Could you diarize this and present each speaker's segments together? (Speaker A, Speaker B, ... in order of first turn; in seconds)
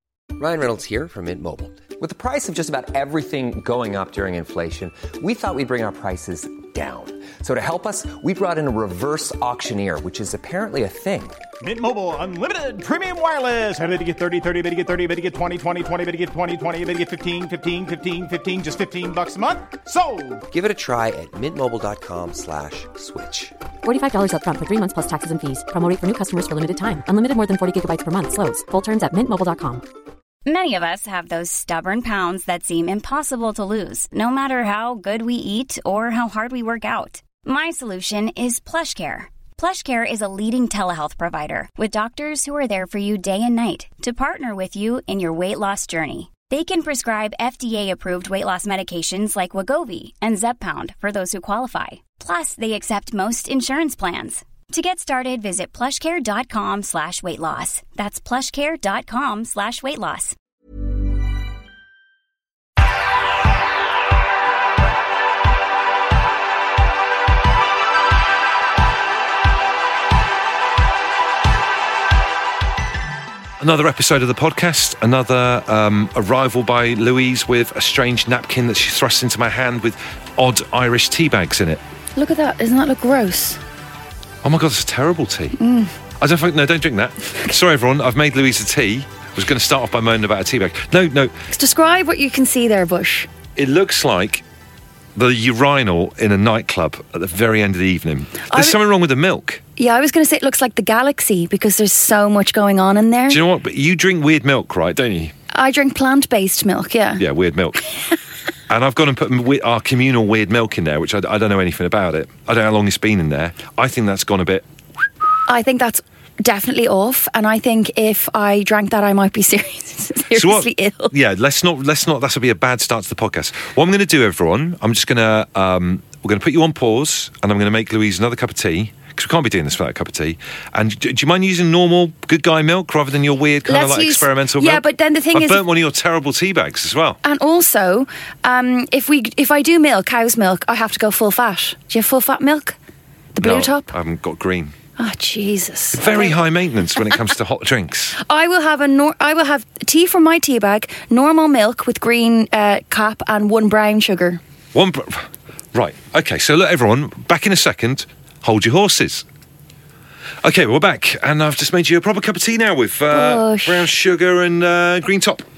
Speaker A: 0.4-11.4, 20.5-23.5
Speaker B: 11.6-20.4
Speaker C: 23.8-29.8
Speaker D: 30.4-60.4
Speaker E: 73.6-81.8, 84.4-85.6, 86.2-91.3, 93.6-94.4, 95.1-99.6, 103.3-105.3, 107.2-107.8, 108.7-114.6, 120.3-137.2, 143.4-144.7, 145.9-148.2, 154.7-159.2, 160.4-165.4
Speaker F: 82.2-83.6, 85.6-85.9, 91.5-93.3, 98.5-98.8, 99.8-103.4, 105.5-107.2, 115.5-121.1, 133.7-135.6, 137.2-142.8, 143.3-143.9, 145.0-146.4, 148.2-154.4, 163.1-163.8